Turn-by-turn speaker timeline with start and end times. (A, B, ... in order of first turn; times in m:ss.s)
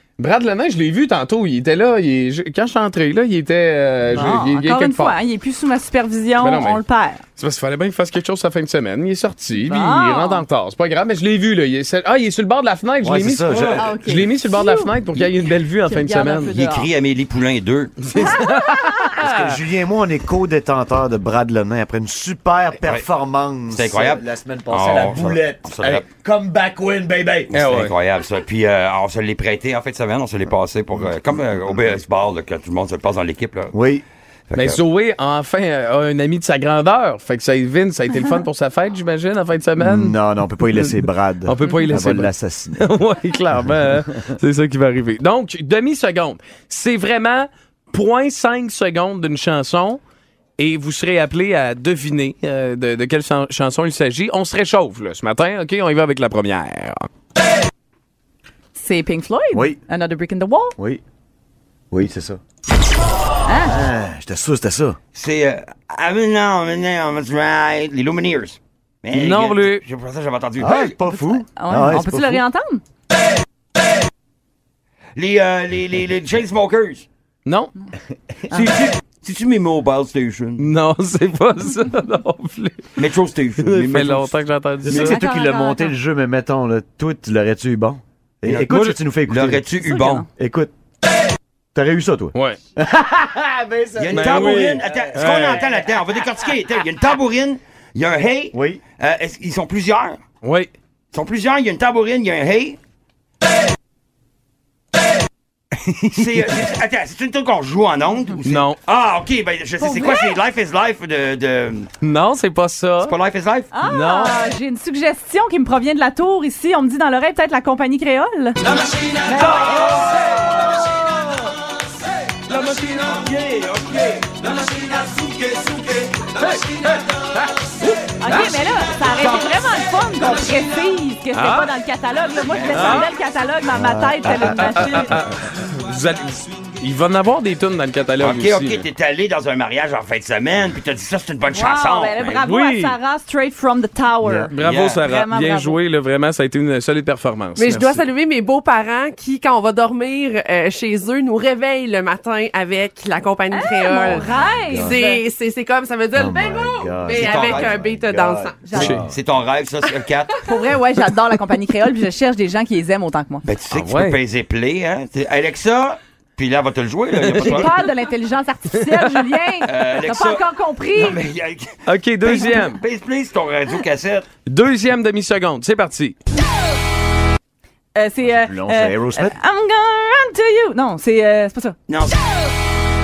0:00.2-0:05.2 A
0:04.2-0:07.2 B
0:06.4-0:06.8 A
0:07.4-0:16.5 A
0:09.6-0:10.4 B
0:13.0-0:13.9 C
0:13.7-0:15.0 B
0:15.8-0:16.9 B
0:16.5-0:18.0 D
0:18.0-0:19.5 A
0:18.1-0:19.1 B
0:19.2-0:27.5 C
0:23.7-0:26.0 D
0:27.5-0:33.8 D
0:27.5-0:28.0 A
0:33.7-0:34.0 C
0:34.5-0:34.8 D
0:34.5-0:50.0 A
0:39.8-0:42.8 C
0:50.6-0:57.0 A
0:58.8-1:00.7 B
0:59.5-0:59.8 C
1:00.8-1:01.0 C
1:01.9-1:02.4 C
1:03.4-1:03.8 B
1:03.6-1:05.0 C
1:05.1-1:11.0 D
1:09.1-1:09.8 A
1:10.6-1:12.4 C
1:11.6-1:12.8 B
1:15.2-1:17.0 D
1:17.4-1:17.7 A
1:18.5-1:20.6 D
1:20.6-1:23.0 A
1:23.0-1:25.0 D
1:23.6-1:25.2 A
1:24.8-1:29.6 C
1:25.0-1:25.9 B
1:28.5-1:29.0 A
1:29.3-1:30.2 D
1:29.8-1:30.2 B
1:30.4-1:30.7 C
1:31.7-1:35.6 C
1:32.3-1:32.6 A
1:34.0-1:40.2 D
1:34.1-1:35.6 A
1:38.5-1:38.8 C
1:40.4-1:40.7 A
1:41.1-1:42.8 D
1:46.1-1:46.4 A
1:46.1-1:51.9 D
1:48.4-1:48.8 A
1:49.8-1:50.4 B
1:52.0-1:53.1 A
1:53.0-1:53.7 D
1:53.7-1:58.6 B
1:53.8-1:54.4 A
1:59.2-2:00.1 B
1:59.4-2:00.5 A
2:02.3-2:08.7 A
2:08.2-2:15.2 B
2:11.3-2:11.7 A
2:12.4-2:13.0 D
2:12.7-2:13.1 A
2:13.7-2:14.9 C
2:14.2-2:18.9 A
2:18.2-2:22.4 D
2:21.5-2:25.8 B
2:22.4-2:23.0 A
2:24.2-2:24.5 C
2:24.5-2:28.1 A
2:24.6-2:25.0 D
2:27.5-2:38.9 E
2:33.5-2:35.2 B
2:34.6-2:35.0 C
2:36.2-2:39.1 C
2:37.2-2:37.7 D
2:38.6-2:39.0 B
2:38.8-2:39.1 A
2:39.0-2:40.3 D
2:40.4-2:43.4 B
2:43.4-2:47.7 D
2:43.7-2:44.2 A
2:47.2-2:47.8 A
2:47.4-2:51.2 B
2:48.7-2:49.3 A
2:49.6-2:54.3 D
2:51.9-2:52.8 A
2:54.4-2:56.1 A
2:57.9-3:01.8 B
2:58.2-2:59.4 C
3:01.9-3:02.2 D